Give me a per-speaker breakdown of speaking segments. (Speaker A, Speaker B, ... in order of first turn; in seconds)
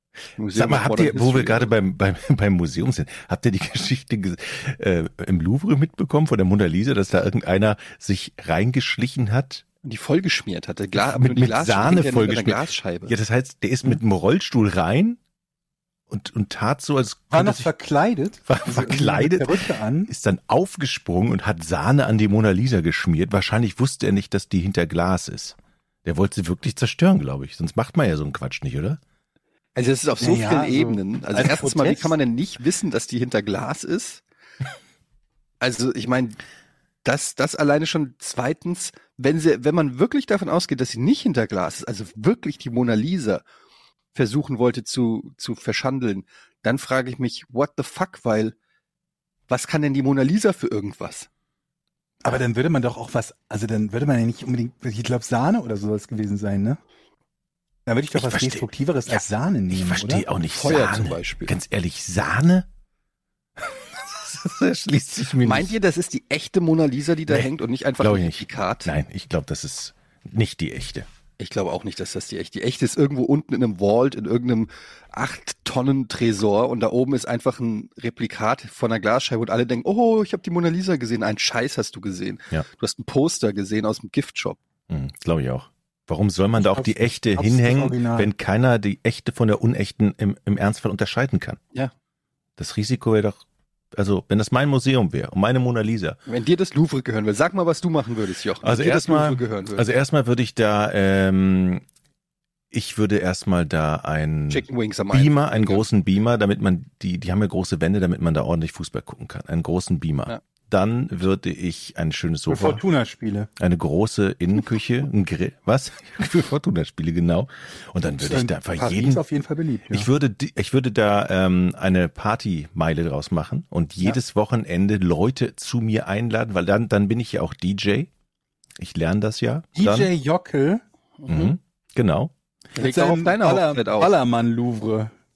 Speaker A: 0.4-1.7, 9.8-13.2, 29.8-34.2, 35.6-36.4, 37.0-43.4, 44.1-48.6, 49.5-51.3, 60.5-61.5, 65.4-68.9, 71.4-84.6, 96.3-99.9, 104.5-105.8, 131.2-131.6, 132.8-134.1
Speaker B: 0.5-9.6, 11.0-15.2, 16.1-17.7, 18.5-29.0, 58.1-62.7, 63.6-65.7, 68.0-71.1, 84.9-91.6, 92.6-96.2, 98.6-101.9, 102.7-112.8, 113.6-119.2, 119.9-128.1, 128.8-130.1, 131.3-132.3
Speaker C: 17.3-20.1, 30.2-32.1, 52.2-56.8, 57.9-60.2, 86.6-88.3, 112.5-113.5, 118.2-120.1, 129.8-130.8, 132.8-135.1